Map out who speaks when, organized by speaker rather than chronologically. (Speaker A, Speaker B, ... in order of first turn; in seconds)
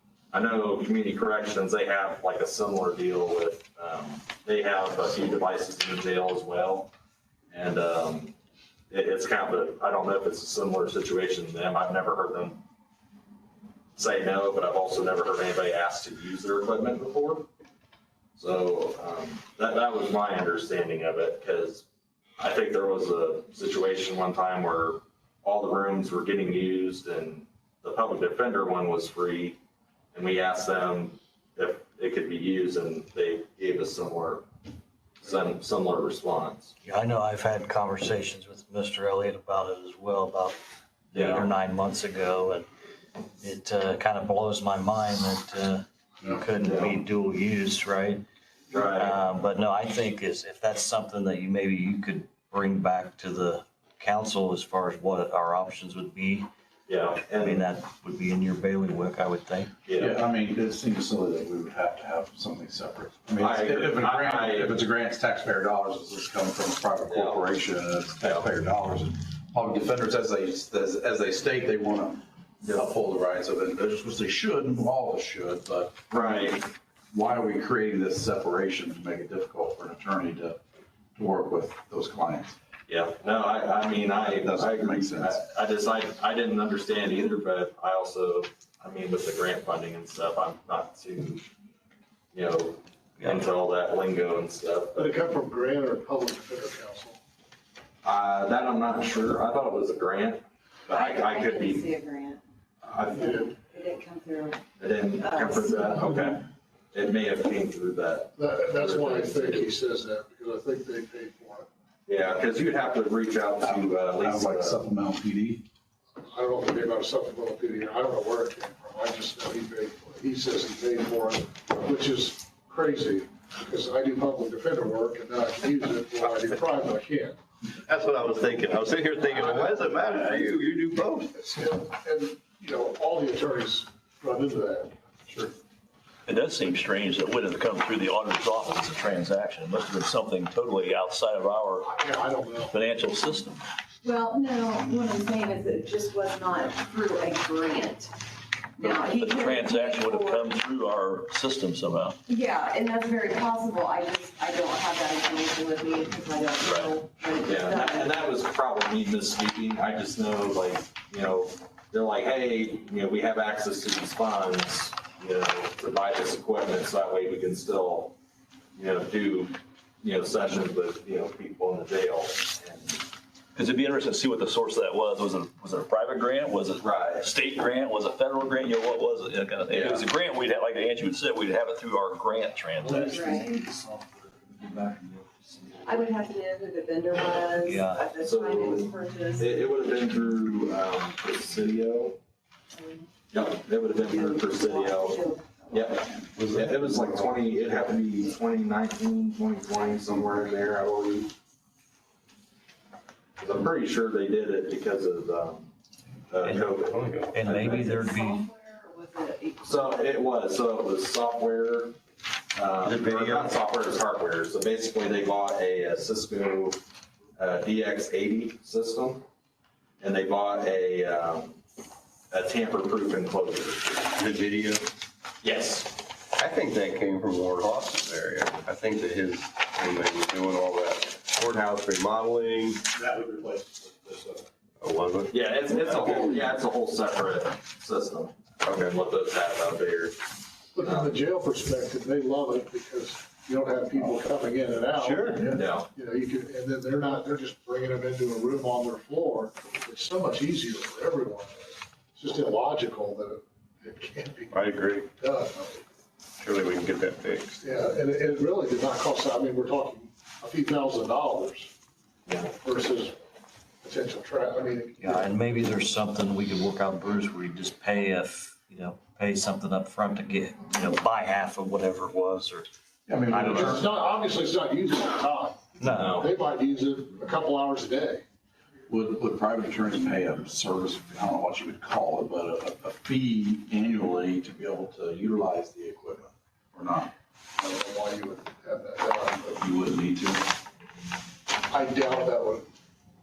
Speaker A: 0.3-6.9, 7.5-8.3, 8.9-12.6, 13.9-17.5, 18.4-21.9, 22.4-29.6, 30.1-34.5, 35.2-36.7, 41.1-41.5, 46.6-47.0, 48.7-49.2, 56.9-57.7, 59.9-60.2, 63.4-64.8, 67.1-67.4, 68.2-68.5, 76.1-76.7, 82.9-91.5, 92.3-95.2, 98.0-101.9, 102.8-103.5, 104.8-109.7, 112.1-114.8, 157.4-168.1, 168.8-173.0, 176.8-177.3, 179.7-180.0, 188.2-192.2, 193.3-201.3, 203.4-205.7, 206.3-207.7, 209.6-212.0, 212.5-216.8, 217.4-219.2, 220.0-221.6, 222.3-224.0, 225.4-225.9, 235.3-240.2, 240.8-241.2, 245.5-245.9, 262.2-262.5, 275.9-276.3
Speaker B: 36.8-40.6, 41.1-42.7, 43.4-48.2, 48.8-56.5, 57.3-59.7, 183.1-185.2, 187.6-188.1, 207.5-208.4, 265.0-272.7, 275.8-276.3
Speaker C: 60.0-76.6, 77.1-80.6, 81.2-82.5, 84.2-85.4, 113.6-115.6, 232.9-234.4, 273.1-273.9, 278.9-287.1, 289.5-290.4
Speaker D: 95.0-97.2, 103.2-103.5, 108.4-111.7, 116.2-127.4, 129.3-129.9, 131.3-134.9, 141.8-142.8, 240.7-254.6, 255.2-255.8, 257.6-261.7, 262.6-263.1, 263.8-265.4, 273.5-278.2, 287.6-289.5, 291.7-292.7
Speaker E: 100.9-102.4, 103.1-104.6, 105.2-106.0, 144.0-148.1, 148.8-150.5, 152.3-158.2, 183.0-183.6, 185.8-189.6, 192.7-193.1, 193.9-196.2, 207.4-210.0
Speaker F: 127.8-131.5, 196.4-197.4, 206.9-207.3, 224.1-224.9, 226.3-232.9, 234.8-236.4, 238.6-239.0, 244.9-245.5, 254.5-255.1, 256.4-257.6
Speaker G: 136.2-141.9, 142.7-143.6, 148.8-152.2, 156.6-156.9, 173.6-183.3, 207.4-207.9